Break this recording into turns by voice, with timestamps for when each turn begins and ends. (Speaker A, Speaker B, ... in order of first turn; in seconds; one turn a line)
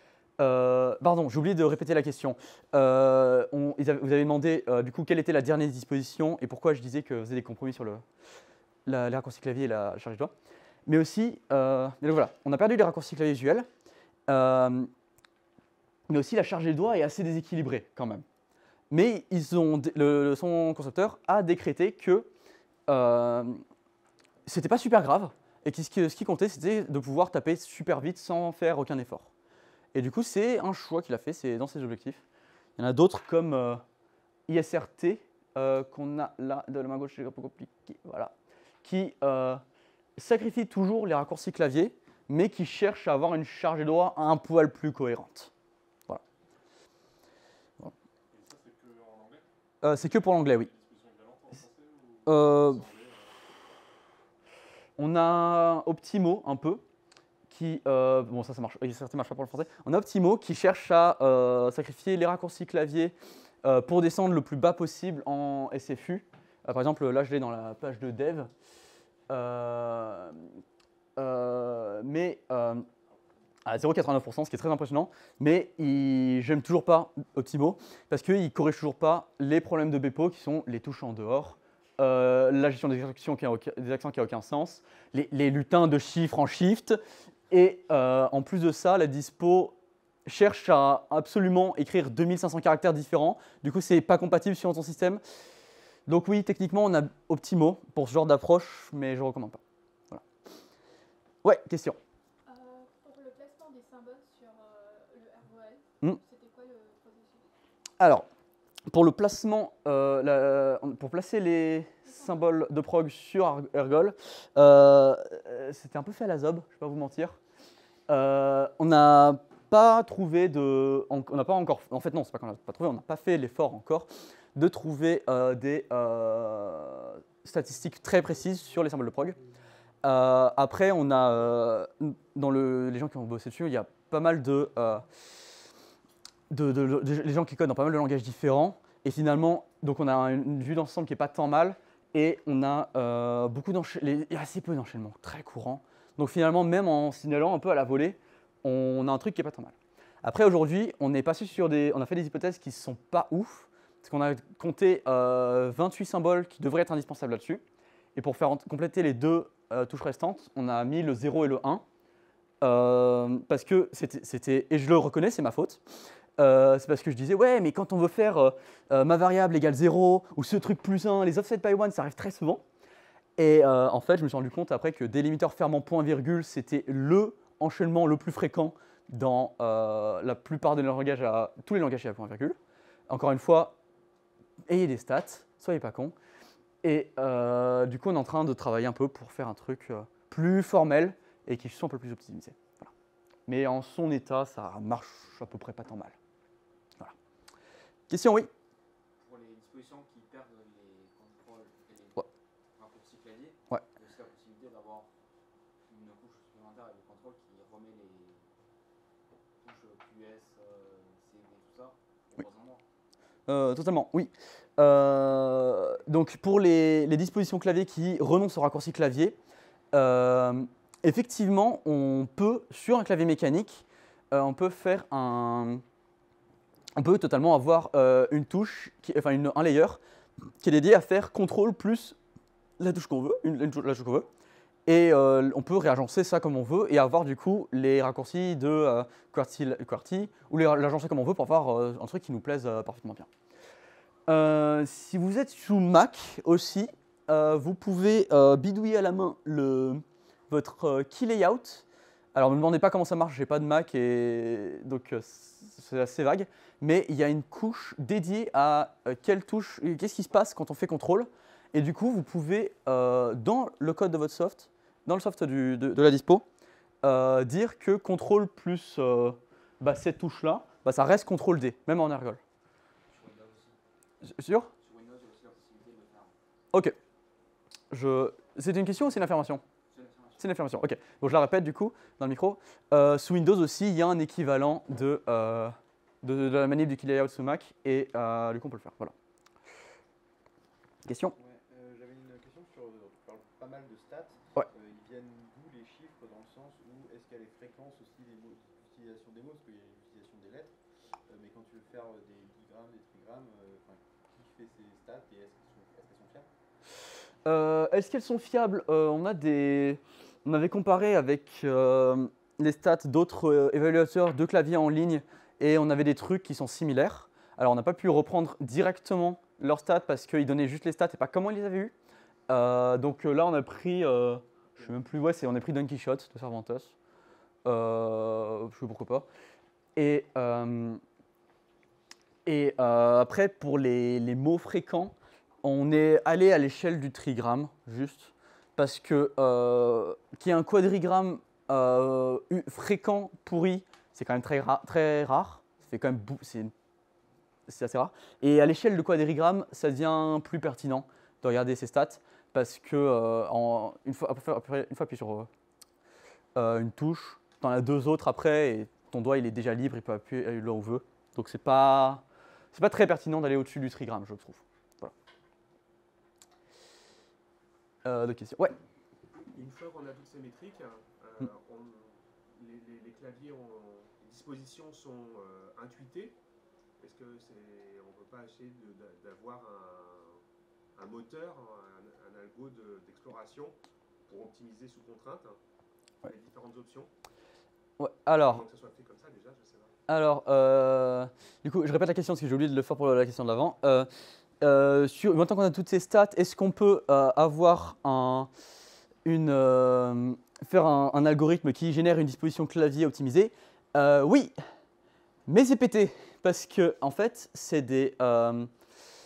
Speaker A: 0.4-8.0
Speaker A: 8.9-10.3
Speaker A: 10.9-13.7
Speaker A: 14.3-14.9
Speaker A: 16.1-18.2
Speaker A: 18.9-22.3
Speaker A: 22.9-23.6
Speaker A: 24.5-29.3
Speaker A: 29.9-32.2
Speaker A: 32.8-33.8
Speaker A: 34.5-38.3
Speaker A: 38.8-39.6
Speaker A: 40.2-45.5
Speaker B: 48.3-53.4
Speaker A: 49.8-50.7
Speaker A: 52.3-52.8
Speaker A: 55.0-56.8
Speaker A: 57.5-68.5
Speaker A: 69.3-70.4
Speaker A: 71.2-72.9
Speaker A: 73.7-87.0
Speaker A: 87.5-89.8
Speaker A: 90.3-95.2
Speaker A: 96.1-99.6
Speaker A: 101.4-102.0
Speaker C: 102.5-107.5
Speaker A: 108.0-108.3
Speaker A: 108.9-117.4
Speaker C: 112.0-112.4
Speaker A: 118.1-129.4
Speaker A: 130.0-135.1
Speaker A: 136.5-157.6
Speaker A: 158.2-161.8
Speaker A: 162.6-165.8
Speaker A: 166.4-172.6
Speaker A: 173.4-182.6
Speaker A: 183.1-183.8
Speaker A: 184.7-186.2
Speaker A: 186.8-192.9
Speaker A: 193.5-196.2
Speaker A: 198.1-198.5
Speaker D: 199.2-205.1
Speaker D: 205.9-208.5
Speaker D: 209.6-212.8
Speaker A: 213.5-219.4
Speaker A: 219.9-225.8
Speaker A: 227.0-230.0
Speaker A: 230.6-232.2
Speaker A: 232.8-234.3
Speaker A: 234.9-243.3
Speaker A: 244.3-266.4
Speaker A: 267.0-272.4
Speaker D: 273.1-273.8
Speaker A: 274.2-274.7
Speaker D: 274.8-276.3
Speaker A: 277.9-279.6
Speaker D: 279.9-280.5
Speaker A: 280.4-289.1
Speaker A: 291.1-291.4
Speaker E: 291.3-300.8
Speaker E: 301.3-306.5
Speaker A: 307.5-321.9
Speaker A: 322.5-326.9
Speaker A: 327.6-329.3
Speaker A: 330.0-331.0
Speaker A: 332.5-346.7
Speaker A: 347.7-355.5
Speaker A: 356.6-365.1
Speaker A: 368.1-368.8
Speaker F: 369.4-376.4
Speaker F: 377.0-380.4
Speaker F: 381.0-385.6
Speaker F: 386.2-387.1
Speaker A: 388.0-388.6
Speaker F: 388.4-389.9
Speaker A: 390.1-394.1
Speaker A: 394.6-398.5
Speaker A: 399.2-404.6
Speaker A: 405.5-408.7